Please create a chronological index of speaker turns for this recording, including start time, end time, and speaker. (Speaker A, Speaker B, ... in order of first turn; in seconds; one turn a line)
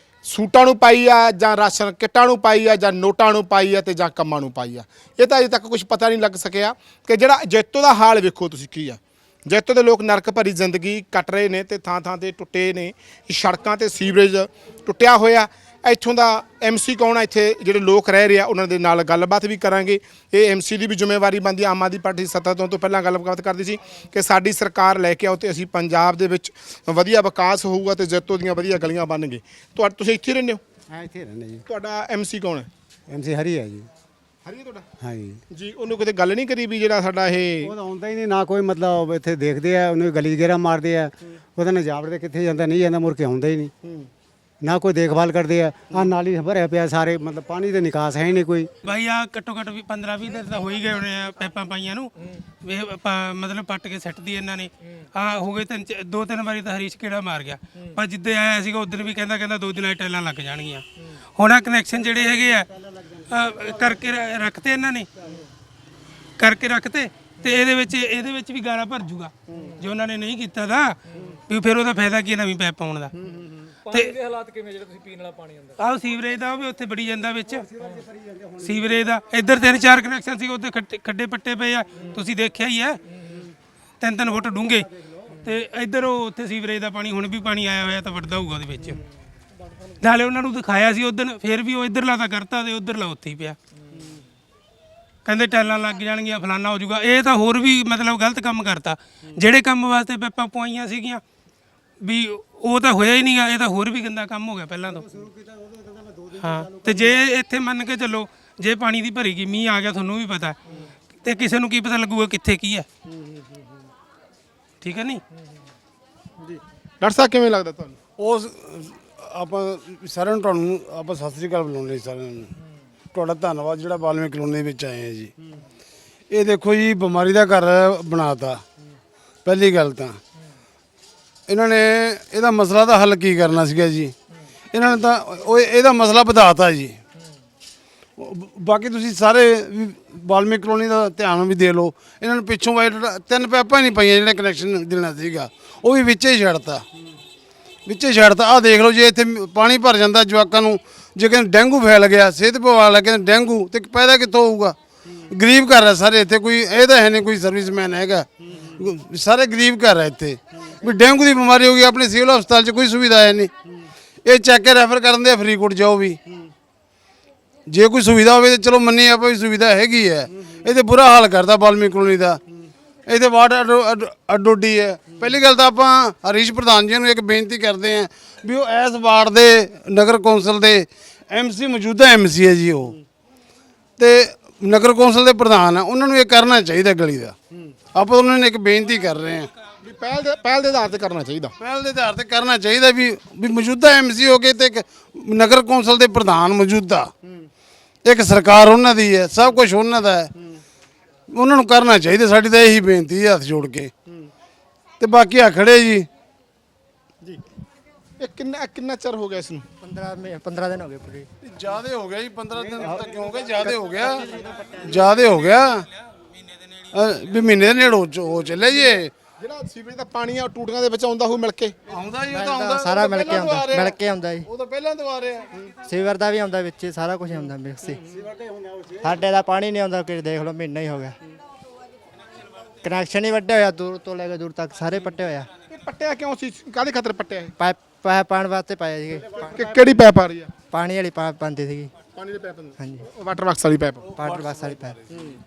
Speaker A: 0.2-30.6
Speaker B: 30.9-31.6
Speaker A: 31.6-32.7
Speaker B: 33.1-33.9
Speaker A: 34.5-34.8
Speaker B: 35.0-35.4
Speaker A: 35.5-37.7
Speaker B: 37.6-43.7
Speaker B: 44.6-48.7
Speaker C: 48.8-52.1
Speaker C: 52.6-60.8
Speaker C: 61.4-62.6
Speaker C: 63.3-65.0
Speaker C: 66.4-71.0
Speaker C: 71.5-73.1
Speaker C: 73.9-74.2
Speaker C: 75.8-77.7
Speaker C: 78.6-83.0
Speaker C: 84.0-84.8
Speaker C: 85.4-89.0
Speaker C: 90.0-93.5
Speaker C: 95.2-101.2
Speaker C: 102.0-105.0
Speaker B: 104.9-107.1
Speaker C: 106.4-110.5
Speaker C: 111.2-112.8
Speaker C: 114.8-115.2
Speaker A: 117.0-118.0
Speaker D: 118.2-122.5
Speaker D: 123.1-125.3
Speaker D: 126.3-128.6
Speaker D: 129.4-130.2
Speaker D: 131.5-134.1
Speaker D: 134.7-137.0
Speaker D: 138.2-146.8
Speaker D: 147.9-154.8
Speaker D: 155.3-163.5
Speaker D: 164.2-166.2
Speaker D: 167.7-172.4
Speaker D: 173.1-182.9
Speaker D: 184.0-187.3
Speaker D: 187.9-189.5
Speaker A: 189.8-191.5
Speaker D: 191.6-197.1
Speaker D: 198.1-200.3
Speaker D: 201.3-203.9
Speaker D: 205.0-206.1
Speaker A: 208.2-209.7
Speaker E: 209.8-211.3
Speaker D: 211.4-214.3
Speaker E: 213.7-215.1
Speaker D: 214.8-215.8
Speaker D: 216.9-219.1
Speaker A: 219.4-221.7
Speaker D: 221.9-225.4
Speaker E: 222.3-224.5
Speaker E: 225.8-228.0
Speaker B: 228.2-229.1
Speaker E: 229.0-231.1
Speaker E: 232.8-235.5
Speaker A: 235.7-237.5
Speaker E: 237.6-239.6
Speaker A: 239.4-240.5
Speaker E: 240.7-241.9
Speaker A: 242.1-244.1
Speaker E: 244.1-245.0